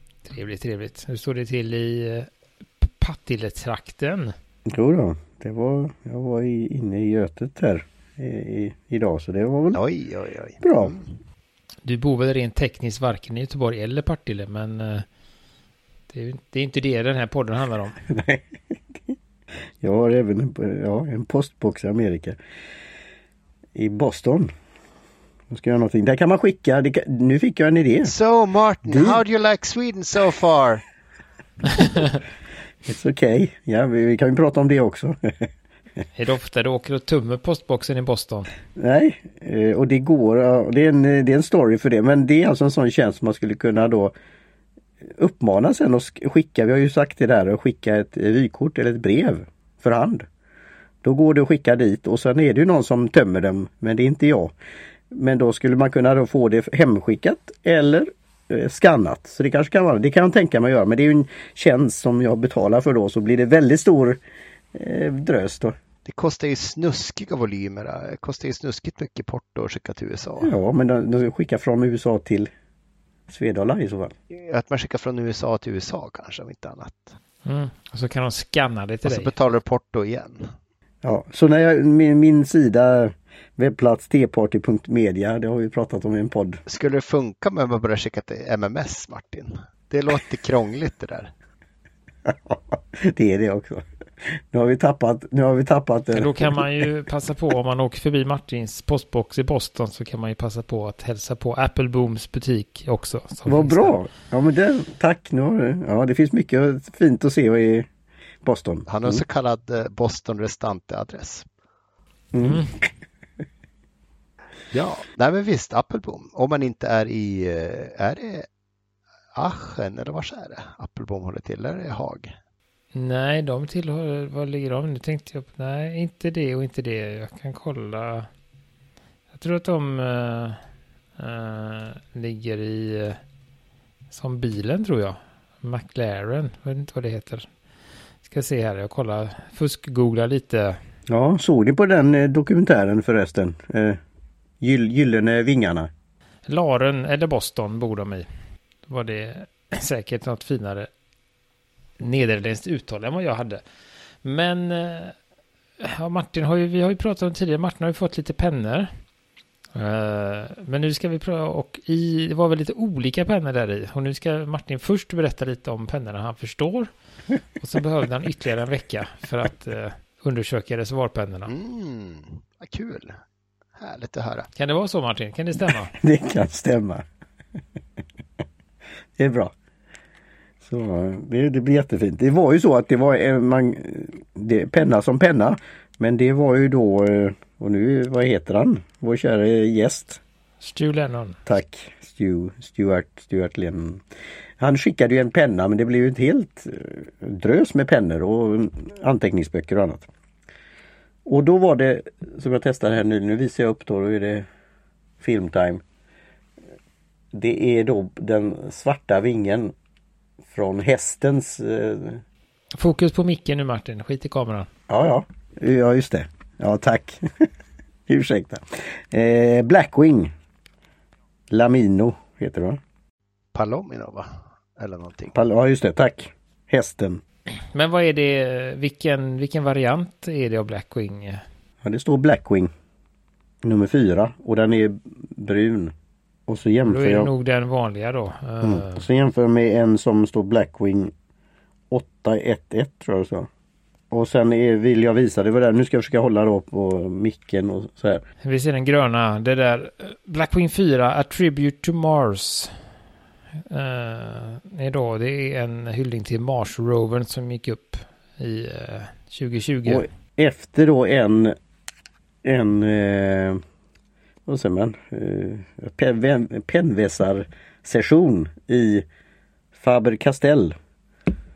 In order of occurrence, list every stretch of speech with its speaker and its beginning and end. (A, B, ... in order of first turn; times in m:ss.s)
0:00.2-0:02.3 A
0:02.8-0:04.3 A
0:04.7-0:09.8 B
0:09.7-0:11.1 C
0:10.6-0:11.0 B
0:11.8-0:15.0 A
0:16.1-0:18.0 A
0:18.1-0:19.2 B
0:19.8-0:22.4 B
0:23.7-0:24.5 B
0:25.5-0:28.1 B
0:28.0-0:30.8 C
0:28.8-0:29.2 B
0:32.8-0:35.5 B
0:36.2-0:38.5 A
0:38.8-0:44.1 B
0:45.0-0:50.2 B
0:51.0-0:54.6 B
0:55.1-1:04.2 B
1:04.7-1:05.8 B
1:06.0-1:10.5 C
1:10.4-1:12.5 B
1:13.3-1:14.1 B
1:14.3-1:17.1 C
1:17.4-1:19.3 A
1:19.0-1:20.5 C
1:21.0-1:26.6 B
1:26.7-1:31.3 C
1:32.2-1:36.7 B
1:36.1-1:44.0 A
1:43.4-1:47.9 B
1:48.4-1:49.2 B
1:48.9-1:51.5 C
1:52.3-1:52.8 B
1:52.4-1:52.7 A
1:54.7-1:58.5 C
1:59.3-2:02.3 C
2:02.9-2:08.3 A
2:09.3-2:10.6 A
2:11.2-2:13.2 A
2:14.1-2:17.5 A
2:18.2-2:20.8 A
2:21.1-2:24.0 B
2:24.6-2:25.9 B
2:26.5-2:28.3 A
2:28.8-2:30.9 A
2:32.0-2:33.6 A
2:34.2-2:35.2 A
2:35.8-2:38.9 A
2:39.8-2:46.9 A
2:47.6-2:51.5 A
2:51.5-2:53.2 C
2:53.8-2:54.5 C
2:54.6-2:55.9 A
2:55.9-2:57.0 B
2:59.2-2:59.5 B
3:00.6-3:10.2 B
3:10.6-3:11.4 A
3:11.5-3:14.0 B
3:14.6-3:20.1 B
3:21.2-3:24.5 B
3:25.2-3:25.8 B
3:27.3-3:29.7 B
3:30.5-3:32.2 B
3:32.8-3:34.7 A
3:34.9-3:37.5 B
3:38.1-3:40.3 B
3:41.5-3:42.8 B
3:43.5-3:45.3 C
3:45.3-3:47.2 B
3:47.7-3:51.4 A
3:51.8-3:52.7 B
3:53.6-3:55.9 B
3:56.5-3:57.3 B
3:56.9-3:59.1 A
3:58.6-4:01.1 B
4:01.9-4:03.5 B
4:04.1-4:08.2 B
4:08.4-4:12.8 A
4:13.7-4:20.1 A
4:19.9-4:21.6 B
4:22.4-4:23.6 B
4:24.4-4:29.1 B
4:29.7-4:30.8 B